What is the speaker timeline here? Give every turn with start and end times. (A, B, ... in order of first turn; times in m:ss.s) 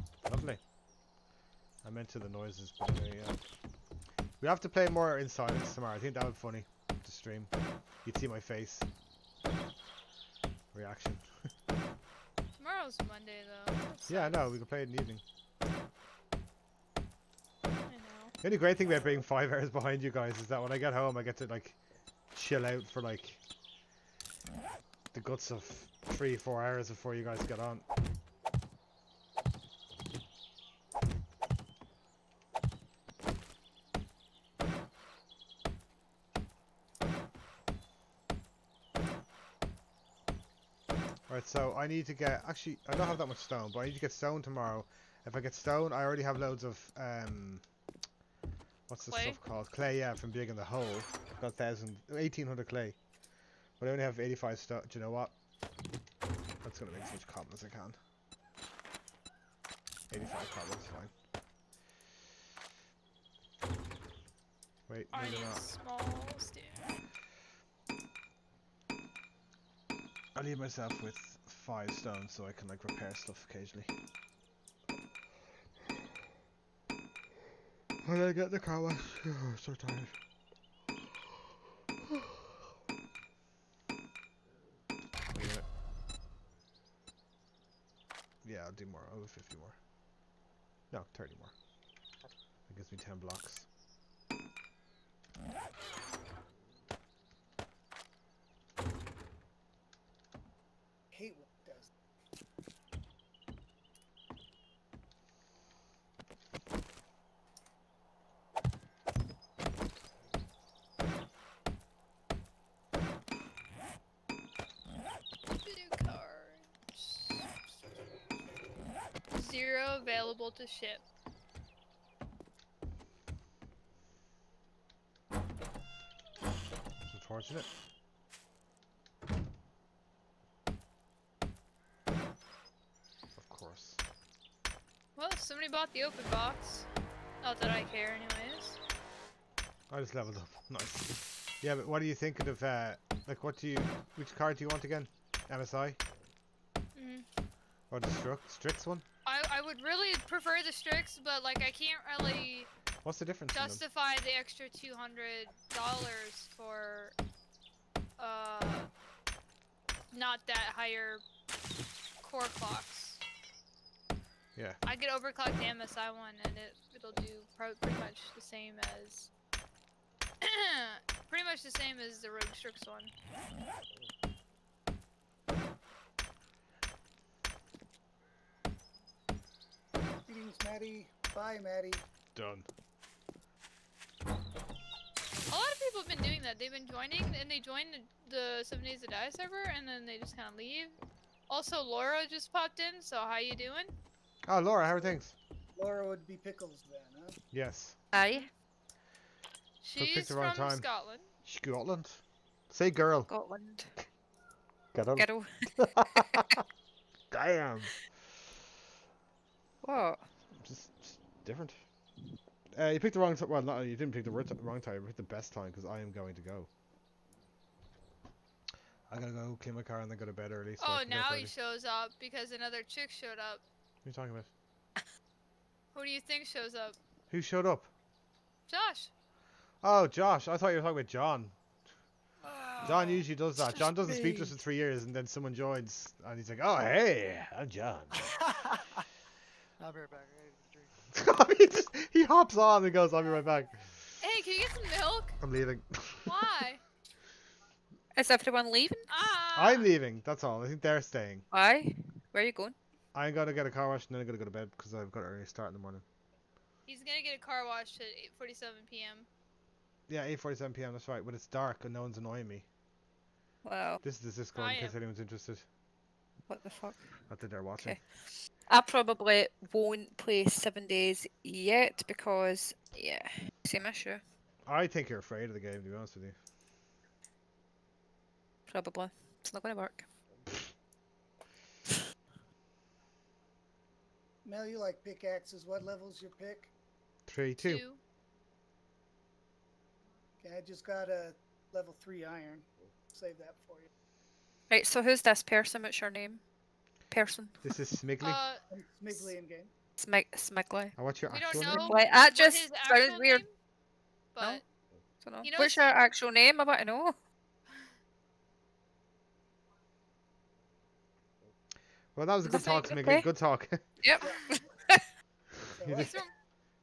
0:00.2-0:00.6 A
0:01.8-0:03.4 A
0:04.4-0:07.5 A
0:08.0-0:08.9 A
0:10.7-0:11.3 A
0:12.6-0:14.4 B
0:14.1-0:15.2 A
0:17.9-0:18.4 B
0:18.4-0:21.8 A
0:22.3-0:23.4 A
0:25.1-0:27.8 A
0:41.3-0:47.6 A
0:48.9-0:53.0 A
0:49.0-0:49.4 B
0:53.8-0:55.3 A
0:56.6-0:58.0 A
1:00.1-1:01.1 A
1:04.9-1:05.6 A
1:05.1-1:06.9 B
1:10.4-1:13.9 A
1:18.0-1:20.2 A
1:25.3-1:25.7 A
1:28.4-1:29.8 A
1:30.9-1:31.5 A
1:32.7-1:33.7 A
1:41.1-1:41.9 C
1:55.6-1:57.5 B
1:59.3-2:01.1 B
2:07.1-2:07.7 A
2:13.4-2:14.0 A
2:15.2-2:16.9 B
2:17.4-2:18.8 B
2:19.9-2:26.0 A
2:27.0-2:27.3 B
2:27.9-2:29.0 A
2:29.3-2:32.7 B
2:33.0-2:33.8 A
2:33.5-2:37.2 B
2:38.2-2:38.9 B
2:40.1-2:41.2 B
2:42.2-2:43.2 B
2:44.8-2:49.3 B
2:50.4-2:53.1 B
3:00.2-3:02.0 C
3:02.4-3:02.7 A
3:05.5-3:11.0 B
3:11.5-3:13.9 B
3:14.5-3:15.4 A
3:15.8-3:17.4 C
3:17.5-3:18.0 A
3:18.1-3:18.5 D
3:19.8-3:21.3 B
3:20.0-3:20.9 A
3:21.4-3:23.3 A
3:23.3-3:23.9 D
3:24.9-3:26.6 A
3:25.2-3:25.8 D
3:27.3-3:28.0 A
3:29.8-3:30.2 D
3:30.6-3:31.8 A
3:32.7-3:36.7 A
3:39.1-3:41.5 A
3:40.8-3:43.6 B
3:44.0-3:44.5 A
3:45.9-3:47.0 B
3:47.3-3:47.9 A
3:48.7-3:49.1 B
3:49.8-3:51.6 A
3:52.6-3:53.1 D
3:52.8-3:58.4 A
3:53.7-3:54.6 D
3:58.3-3:59.0 E
3:59.8-4:00.9 E
4:01.1-4:04.2 A
4:04.2-4:05.4 B
4:05.4-4:06.4 A
4:06.3-4:06.8 B
4:08.2-4:09.1 D
4:09.1-4:09.9 B
4:09.6-4:11.5 A
4:11.5-4:12.8 D
4:13.2-4:16.0 A
4:16.9-4:19.3 B
4:20.1-4:22.7 A
4:23.6-4:24.0 D
4:24.0-4:25.6 A
4:24.6-4:25.0 B
4:26.5-4:27.0 D
4:27.3-4:28.0 A
4:28.7-4:34.2 D
4:34.7-4:36.4 A
4:38.7-4:40.1 D
4:44.4-4:46.7 C
4:47.3-4:47.8 A
4:47.6-4:48.0 B
4:50.4-4:53.9 C
4:54.7-4:56.4 D
4:57.1-4:57.7 D
4:57.6-4:58.4 A
4:58.2-4:58.6 B
4:58.7-4:59.7 C
5:00.0-5:01.0 D
5:01.0-5:02.0 A
5:01.3-5:03.5 B
5:01.5-5:03.4 D
5:04.4-5:04.6 B
5:05.2-5:07.2 D
5:05.4-5:05.8 B
5:12.2-5:13.9 A
5:12.4-5:13.3 D
5:14.0-5:15.0 D
5:14.2-5:14.6 C
5:15.7-5:16.1 C
5:15.8-5:16.2 A
5:15.9-5:16.3 B